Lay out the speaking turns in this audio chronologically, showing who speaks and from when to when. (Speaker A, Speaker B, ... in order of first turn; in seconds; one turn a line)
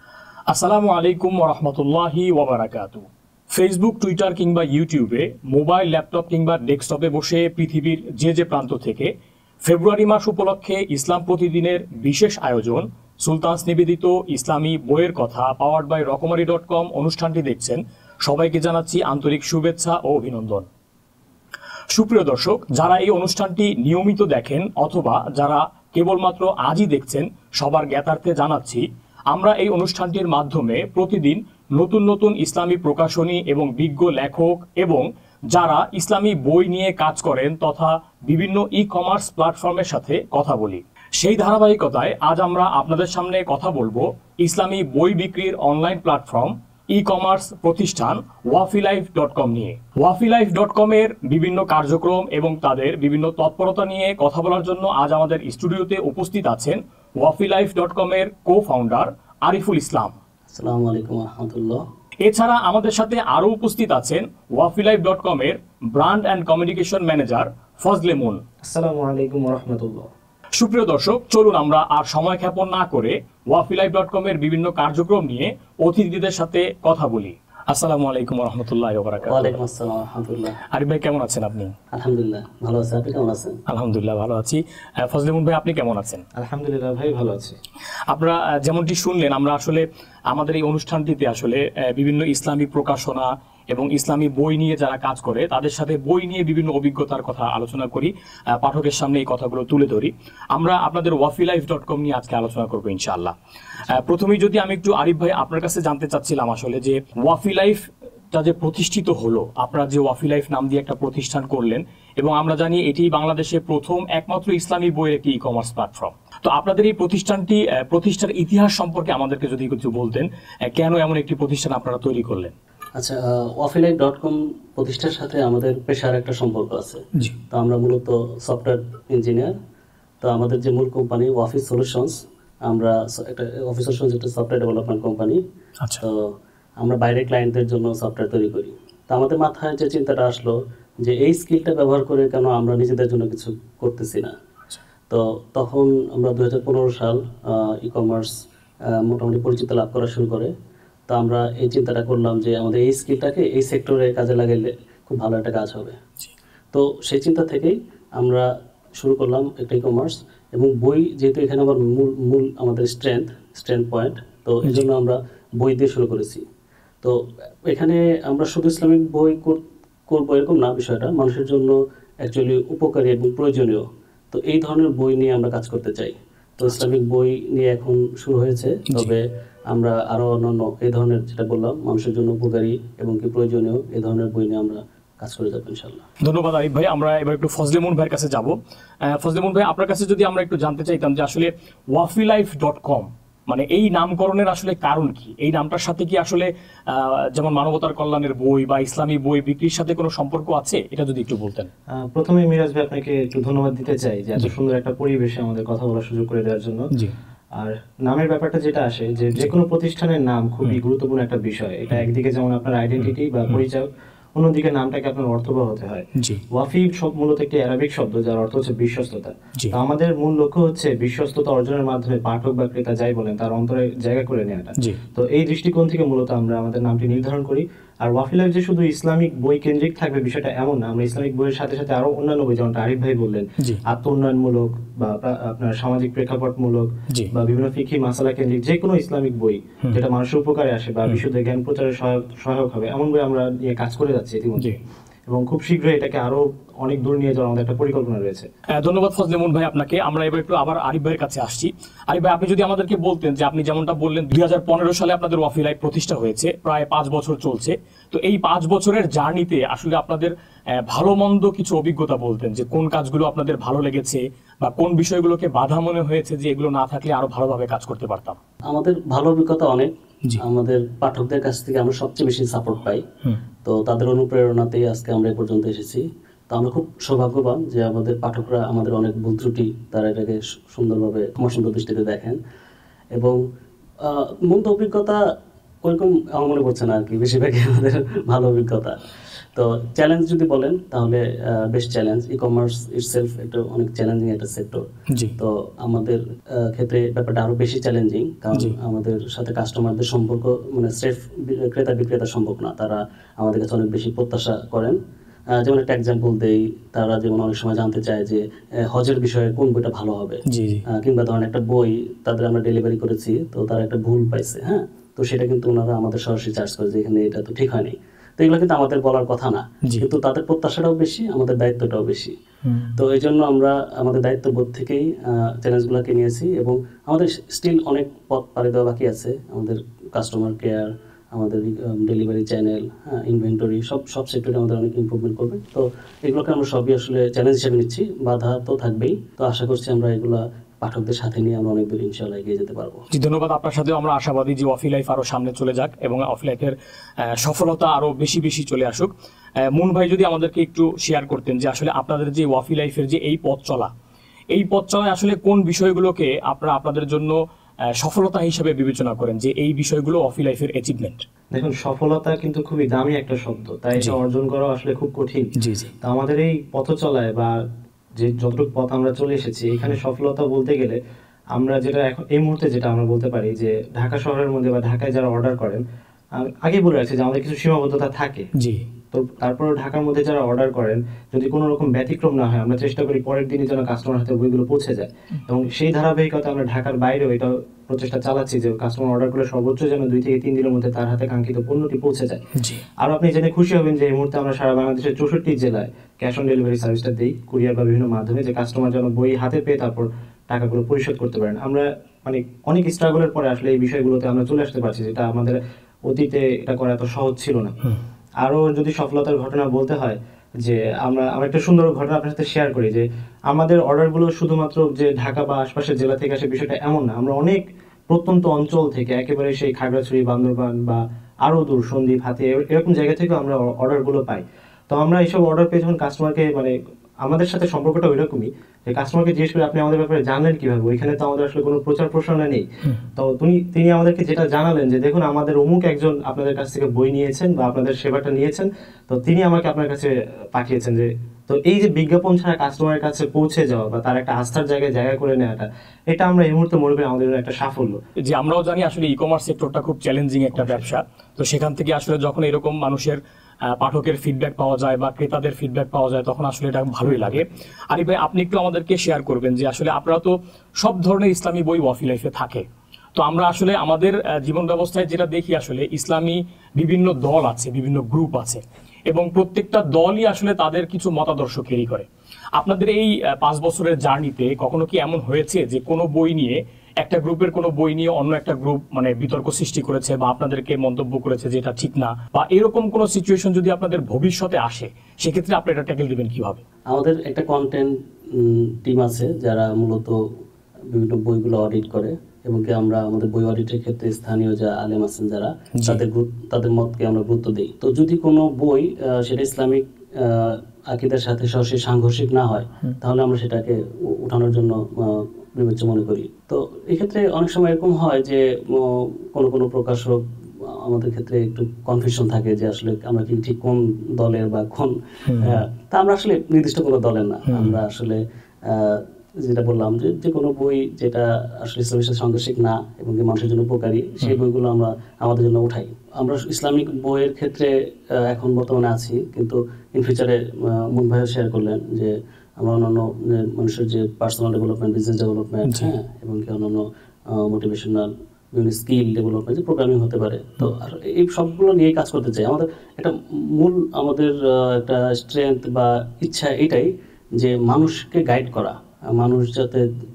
Speaker A: 0.5-9.1
Speaker A: 9.6-20.7
Speaker A: 21.9-60.2
Speaker B: 60.5-61.8
Speaker A: 62.2-68.4
Speaker C: 68.6-70.1
Speaker A: 70.6-79.6
Speaker B: 79.3-80.6
Speaker A: 80.7-81.7
Speaker B: 81.9-83.6
Speaker A: 83.7-86.2
Speaker C: 86.4-87.6
Speaker A: 88.1-103.3
Speaker A: 103.9-122.5
Speaker B: 123.0-129.6
Speaker B: 130.2-135.4
Speaker B: 136.0-144.3
Speaker B: 145.1-148.3
Speaker B: 148.9-150.5
Speaker B: 151.1-156.0
Speaker B: 156.7-166.4
Speaker B: 167.0-186.1
Speaker A: 186.2-201.7
Speaker C: 201.9-206.9
Speaker C: 207.6-244.7
Speaker A: 216.2-216.4
Speaker C: 245.3-248.5
Speaker A: 248.8-268.4
Speaker B: 268.7-273.0
Speaker B: 273.6-282.4
Speaker B: 283.1-283.4
Speaker B: 284.0-285.2
Speaker B: 285.8-289.0
Speaker B: 289.6-294.9
Speaker B: 295.4-305.0
Speaker B: 305.5-322.4
Speaker A: 310.5-310.9
Speaker A: 322.7-323.0
Speaker B: 323.0-343.1
Speaker A: 343.1-349.1
Speaker A: 349.6-353.9
Speaker A: 354.5-357.4
Speaker A: 357.9-361.2
Speaker C: 361.5-367.6
Speaker A: 365.6-365.9
Speaker C: 368.2-371.0
Speaker C: 371.6-375.8
Speaker C: 376.3-378.5
Speaker A: 378.6-378.8
Speaker C: 379.1-392.4
Speaker A: 392.6-392.9
Speaker C: 393.0-407.8
Speaker C: 408.4-448.0
Speaker A: 448.2-453.2
Speaker A: 453.8-462.6
Speaker A: 463.2-472.1
Speaker A: 472.6-486.6
Speaker B: 486.9-490.2
Speaker B: 490.9-549.9
Speaker A: 515.3-515.6
Speaker A: 517.5-517.8
Speaker A: 535.7-535.9